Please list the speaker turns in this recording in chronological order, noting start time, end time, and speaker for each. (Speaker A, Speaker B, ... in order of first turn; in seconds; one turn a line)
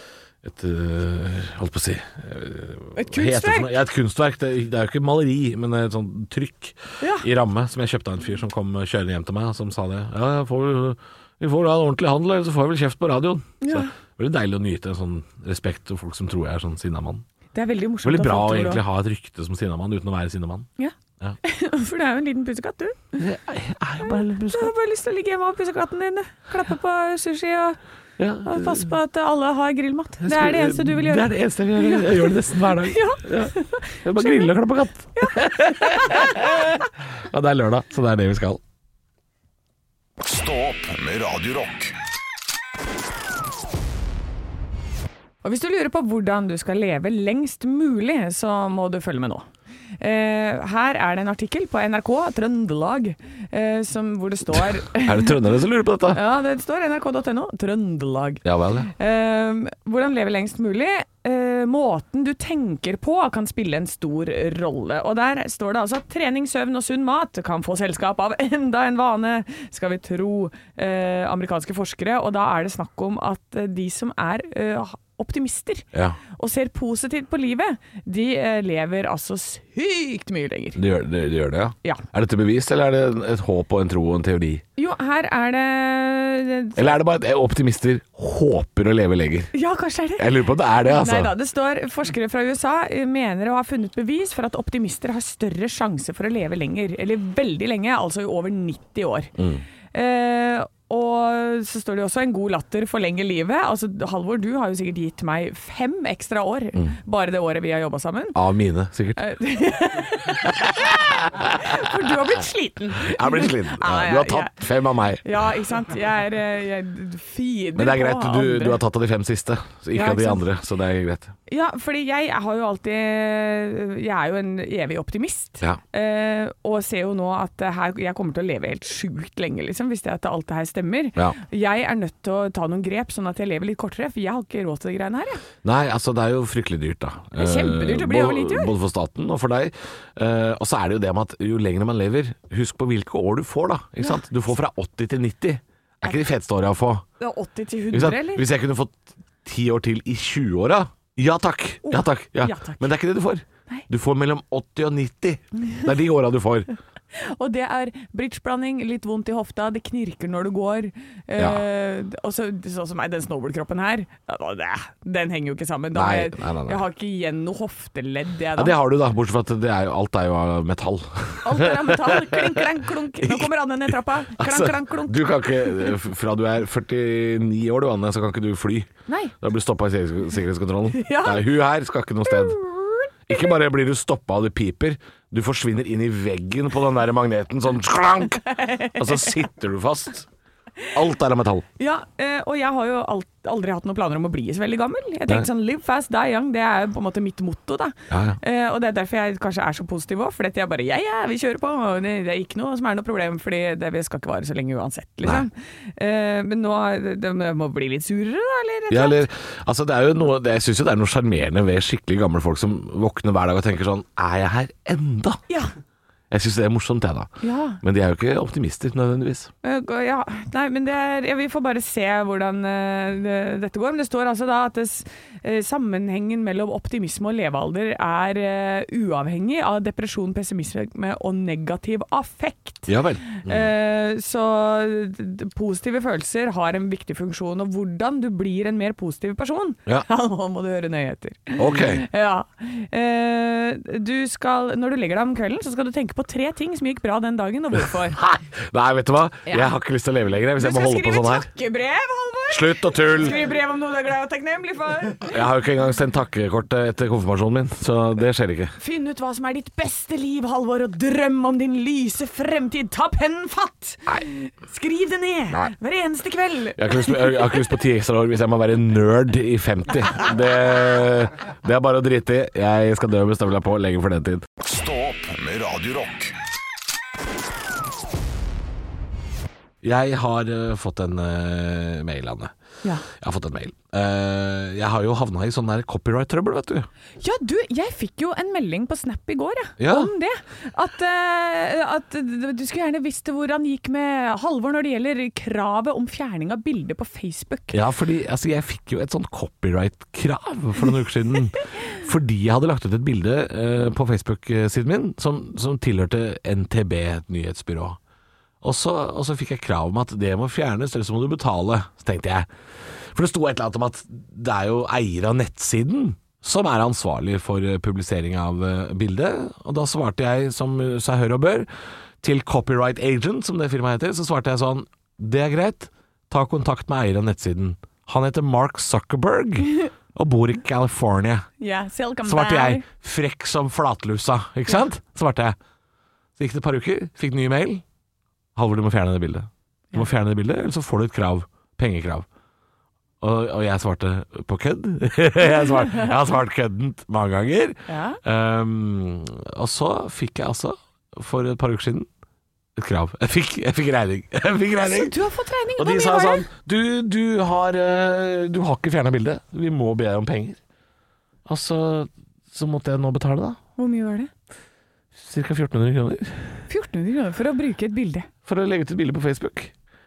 Speaker A: 0.4-17.2
Speaker B: 2.9-3.7
Speaker B: 7.0-7.3
Speaker B: 13.6-13.9
Speaker B: 17.5-18.8
Speaker A: 18.0-20.7
Speaker B: 20.8-23.2
Speaker A: 23.2-24.7
Speaker B: 24.0-27.8
Speaker A: 28.2-28.9
Speaker B: 28.4-34.5
Speaker A: 30.2-38.6
Speaker B: 35.2-36.9
Speaker C: 40.2-41.9
Speaker B: 45.4-49.5
Speaker B: 50.0-55.4
Speaker A: 54.9-56.2
Speaker B: 56.1-80.8
Speaker A: 58.4-58.9
Speaker A: 75.9-76.2
Speaker A: 80.8-84.6
Speaker B: 84.8-86.9
Speaker A: 86.8-89.5
Speaker B: 89.5-99.3
Speaker A: 90.2-91.3
Speaker A: 99.4-99.6
Speaker B: 99.9-108.4
Speaker A: 108.3-109.2
Speaker B: 109.2-114.6
Speaker A: 110.6-112.3
Speaker A: 113.0-115.3
Speaker B: 115.2-118.8
Speaker A: 117.8-121.3
Speaker B: 119.9-120.4
Speaker B: 121.5-135.4
Speaker A: 135.6-147.0
Speaker B: 137.4-138.7
Speaker B: 147.2-148.4
Speaker A: 147.9-156.7
Speaker B: 151.8-152.9
Speaker B: 157.1-168.7
Speaker A: 165.9-166.8
Speaker A: 168.6-173.5
Speaker B: 171.4-175.9
Speaker A: 174.3-182.6
Speaker B: 179.1-179.3
Speaker B: 181.0-181.4
Speaker B: 182.3-183.1
Speaker A: 183.3-190.3
Speaker B: 188.5-189.3
Speaker A: 190.9-191.6
Speaker B: 191.8-209.2
Speaker A: 198.1-198.4
Speaker A: 208.9-215.4
Speaker B: 215.5-215.7
Speaker A: 216.3-219.5
Speaker B: 217.4-217.8
Speaker B: 219.6-248.2
Speaker A: 232.9-233.7
Speaker A: 241.6-242.1
Speaker A: 248.1-251.5
Speaker B: 249.5-249.7
Speaker B: 250.6-255.4
Speaker A: 252.5-253.3
Speaker A: 255.2-258.7
Speaker B: 258.8-267.6
Speaker A: 266.8-274.4
Speaker C: 274.6-276.3
Speaker A: 279.8-282.5
Speaker A: 283.0-286.9
Speaker B: 287.2-297.8
Speaker A: 289.8-290.1
Speaker A: 297.7-308.0
Speaker A: 308.6-321.7
Speaker A: 322.2-331.5
Speaker B: 331.6-332.8
Speaker A: 332.2-335.6
Speaker A: 336.4-337.8
Speaker A: 338.5-342.3
Speaker A: 343.2-352.1
Speaker B: 347.9-348.2
Speaker A: 352.8-355.1
Speaker B: 354.8-356.4
Speaker A: 355.8-360.6
Speaker A: 361.4-363.6
Speaker B: 363.8-364.3
Speaker A: 365.1-366.6
Speaker B: 366.7-368.3
Speaker A: 368.4-369.7